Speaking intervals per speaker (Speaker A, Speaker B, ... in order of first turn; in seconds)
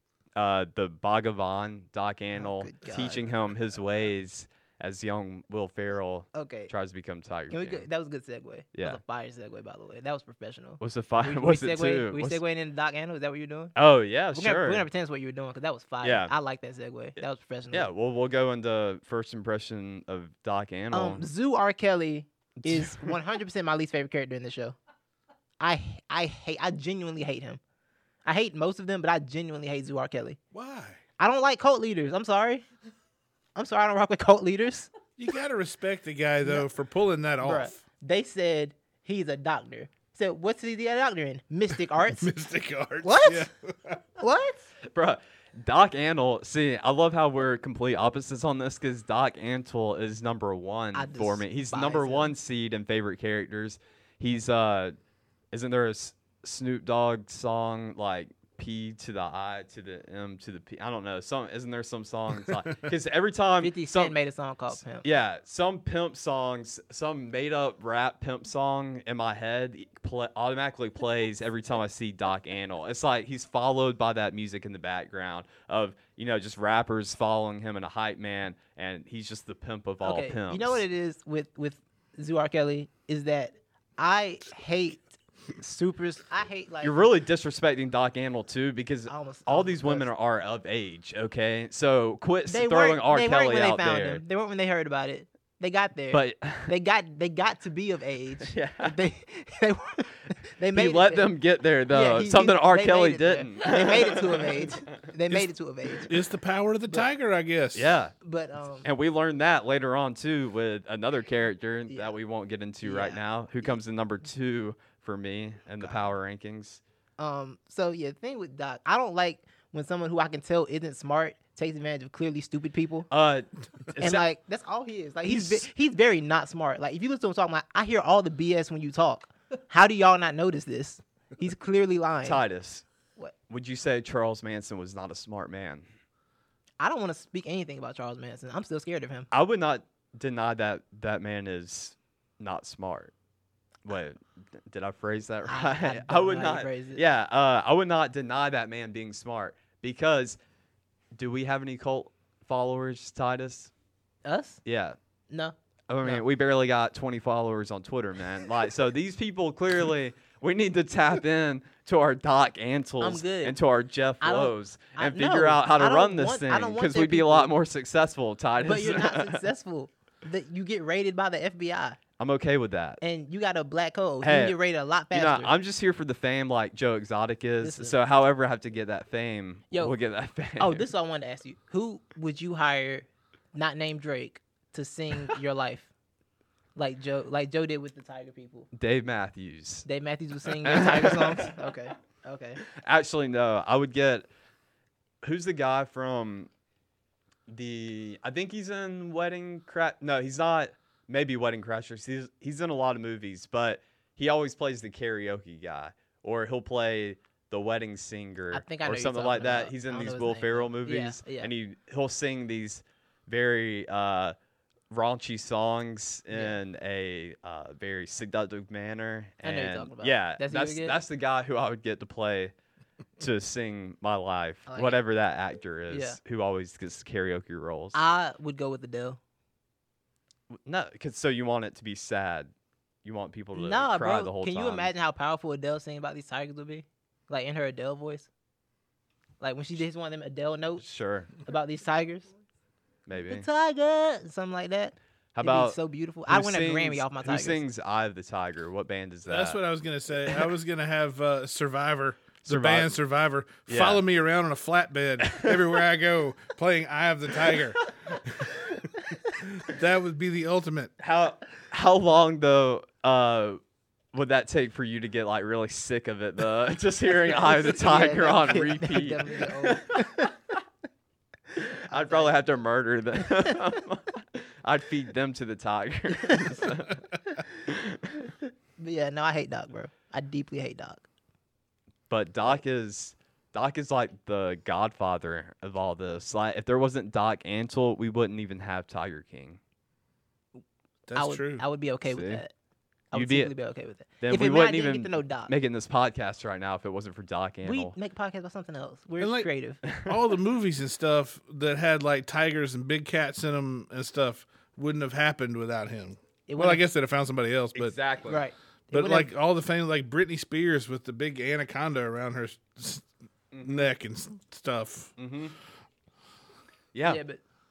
Speaker A: 0.4-7.8, 8.8-9.0, 10.8-12.4, 13.8-14.9, 16.0-16.3, 17.7-21.3, 22.6-23.1, 44.9-54.9, 55.5-64.2, 65.0-80.8, 86.8-94.2, 96.1-96.7, 98.5-99.0, 100.7-104.7, 107.8-108.2, 108.8-116.8, 123.1-124.2, 125.2-125.7, 132.2-132.8, 133.5-135.8, 139.3-143.1, 143.8-150.4, 151.2-153.7, 154.7-155.0, 155.9-169.4, 172.2-173.0, 174.2-174.6, 175.1-180.9, 188.7-189.9, 190.5-191.6, 192.7-194.3, 195.2-196.5, 197.5-214.3, 214.9-222.5, 223.2-228.0, 230.6-232.5, 233.0-234.9, 240.8-241.3, 243.1-243.5, 245.3-249.6, 252.4-252.9, 253.7-254.0, 255.2-255.6, 261.0-263.6, 264.1-270.3, 271.9-277.1, 277.7-278.1, 282.1-289.6, 292.0-292.4, 293.1-293.5, 294.2-297.9, 299.8-300.2, 307.8-308.4, 313.5-313.9, 315.2-315.6, 316.9-317.2
Speaker B: 2.4-3.3, 6.3-6.7, 7.5-13.8, 14.3-17.9, 20.9-24.8, 25.6-27.6, 28.2-30.4, 31.2-32.7, 33.5-34.9, 37.4-42.3, 43.0-43.5, 44.2-44.7, 50.9-52.3, 63.6-65.1, 80.0-87.0, 89.1-90.1, 92.5-101.3, 101.9-106.1, 108.2-108.9, 112.8-113.7, 117.2-123.1, 124.0-132.4, 136.8-139.3, 145.5-147.0, 154.2-154.6, 155.3-156.2, 163.0-163.6, 164.2-167.5, 168.6-172.0, 173.0-175.5, 177.6-178.0, 180.6-185.9, 186.8-188.7, 189.8-192.6, 208.5-211.5, 216.3-216.6, 219.4-221.0, 224.7-225.0, 225.9-226.2, 227.9-229.2, 233.6-238.3, 239.4-240.8, 241.4-242.3, 243.3-247.6, 267.4-270.3, 271.9-272.3, 276.3-276.5, 278.8-281.1, 291.1-292.5, 293.1-295.5, 297.6-299.8, 306.5-306.8, 308.3-309.3, 317.1-317.4
Speaker C: 30.5-31.0, 35.2-37.8, 42.1-44.0, 106.1-108.0, 249.3-257.8, 259.4-260.9, 291.1-291.6, 299.2-299.5, 300.1-307.9, 308.9-313.1, 313.6-315.1